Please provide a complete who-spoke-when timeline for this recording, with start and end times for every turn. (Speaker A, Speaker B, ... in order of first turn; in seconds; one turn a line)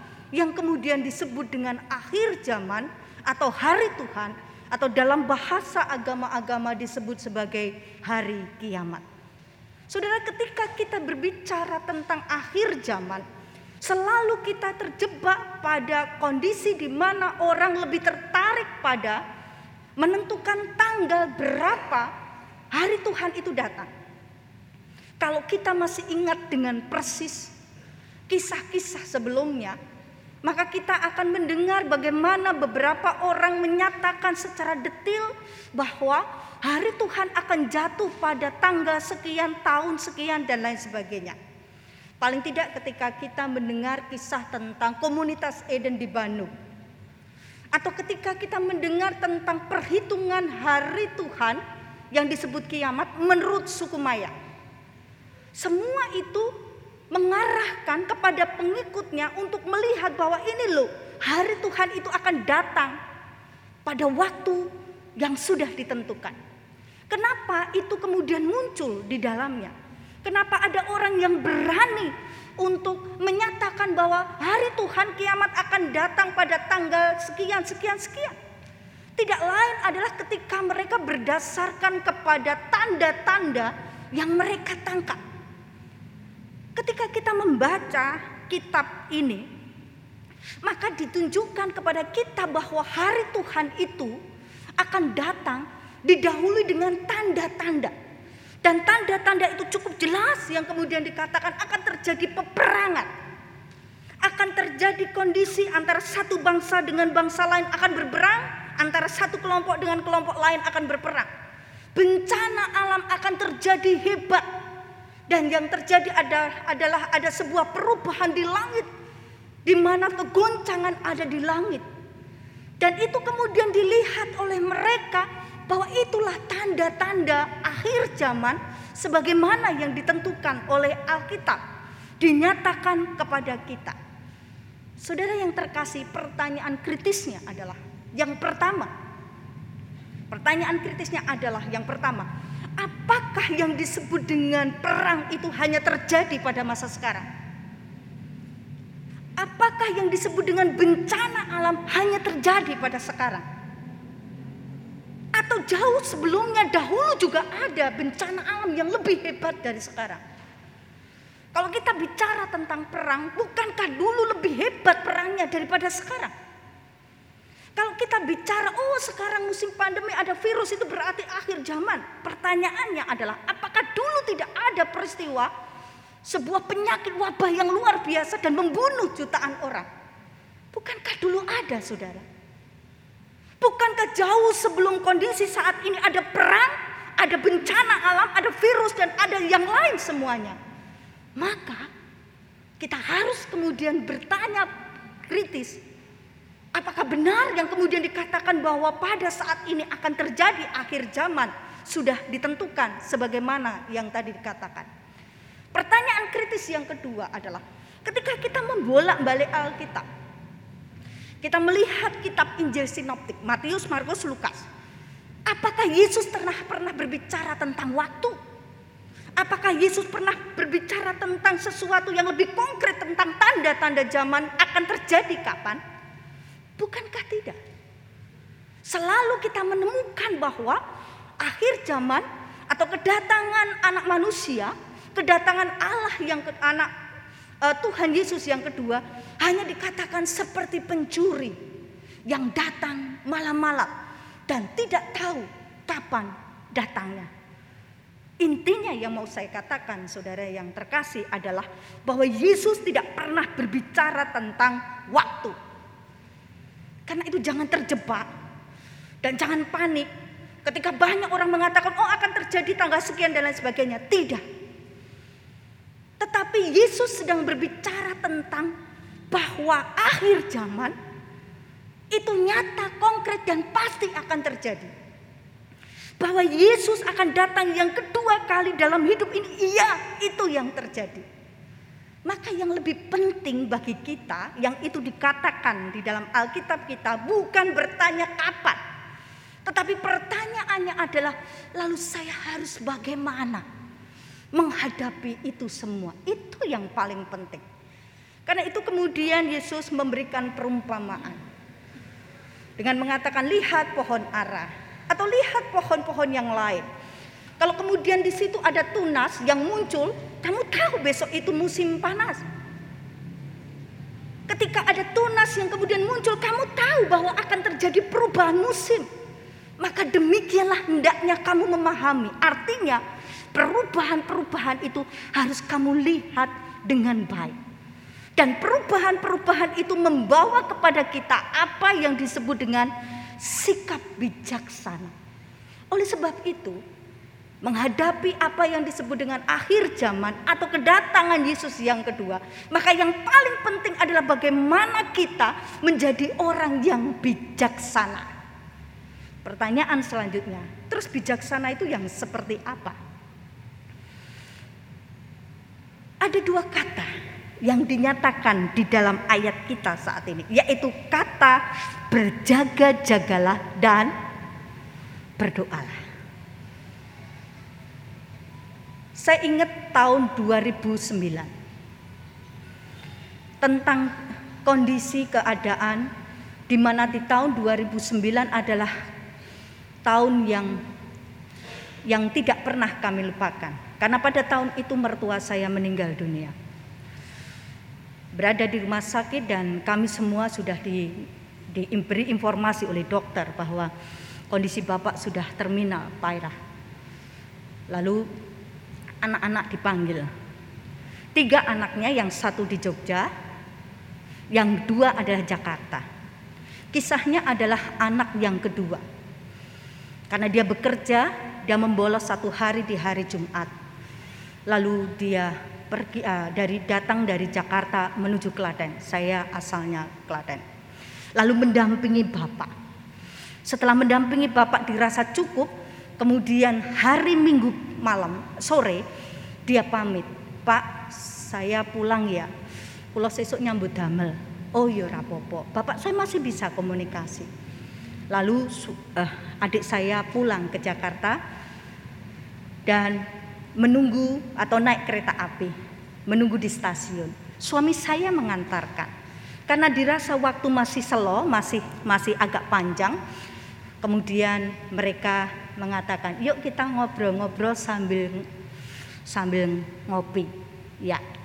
Speaker A: 0.3-9.0
Speaker A: 9.9-13.2
Speaker A: 13.8-19.2
Speaker A: 20.0-22.1
Speaker A: 22.7-23.9
Speaker A: 25.2-27.5
Speaker A: 28.3-29.8
Speaker A: 30.4-41.4
Speaker A: 42.2-46.5
Speaker A: 47.7-51.6
Speaker A: 52.1-54.3
Speaker A: 55.6-56.5
Speaker A: 57.1-62.9
Speaker A: 63.9-66.4
Speaker A: 67.1-78.3
Speaker A: 79.2-85.2
Speaker A: 86.8-89.5
Speaker A: 90.6-94.2
Speaker A: 94.8-97.9
Speaker A: 98.6-103.1
Speaker A: 104.2-111.3
Speaker A: 111.9-114.4
Speaker A: 115.3-118.9
Speaker A: 119.7-121.8
Speaker A: 122.8-131.6
Speaker A: 132.2-134.0
Speaker A: 135.0-138.9
Speaker A: 140.3-142.3
Speaker A: 142.8-147.3
Speaker A: 149.4-153.4
Speaker A: 155.3-160.2
Speaker A: 161.5-166.3
Speaker A: 167.8-175.5
Speaker A: 176.2-179.9
Speaker A: 180.7-182.2
Speaker A: 183.6-190.6
Speaker A: 191.4-191.9
Speaker A: 192.8-194.7
Speaker A: 195.3-195.8
Speaker A: 196.7-204.9
Speaker A: 205.7-210.1
Speaker A: 211.4-214.7
Speaker A: 215.5-218.4
Speaker A: 219.4-225.8
Speaker A: 226.8-227.6
Speaker A: 228.9-230.8
Speaker A: 231.4-236.9
Speaker A: 237.6-241.6
Speaker A: 242.3-243.9
Speaker A: 244.5-247.3
Speaker A: 248.4-255.6
Speaker A: 257.1-258.3
Speaker A: 259.2-260.1
Speaker A: 260.6-264.4
Speaker A: 266.2-268.7
Speaker A: 269.3-270.9
Speaker A: 272.1-274.9
Speaker A: 276.2-281.2
Speaker A: 282.2-288.8
Speaker A: 289.6-293.6
Speaker A: 294.5-297.6
Speaker A: 298.4-301.4
Speaker A: 302.8-306.9
Speaker A: 307.6-312.4
Speaker A: 314.5-319.1
Speaker A: 319.8-323.0
Speaker A: 323.5-327.6
Speaker A: 328.4-335.1
Speaker A: 335.9-336.8
Speaker A: 337.6-348.2
Speaker A: 349.4-353.0
Speaker A: 356.2-357.1
Speaker A: 357.6-364.1
Speaker A: 365.4-366.0
Speaker A: 369.2-371.5
Speaker A: 373.6-374.1
Speaker A: 374.6-376.1
Speaker A: 376.7-378.9
Speaker A: 380.1-380.8
Speaker A: 382.1-386.5
Speaker A: 388.3-393.9
Speaker A: 394.5-396.5
Speaker A: 397.9-398.2
Speaker A: 399.2-400.3
Speaker A: 401.3-403.3
Speaker A: 404.5-406.0
Speaker A: 406.9-409.0
Speaker A: 410.3-413.7
Speaker A: 414.7-420.6
Speaker A: 421.4-422.7
Speaker A: 423.6-429.0
Speaker A: 429.7-432.5
Speaker A: 433.1-437.5
Speaker A: 438.3-441.4
Speaker A: 442.9-443.2
Speaker A: 443.8-445.7
Speaker A: 446.3-449.1
Speaker A: 449.7-453.2
Speaker A: 454.0-458.5
Speaker A: 459.3-460.5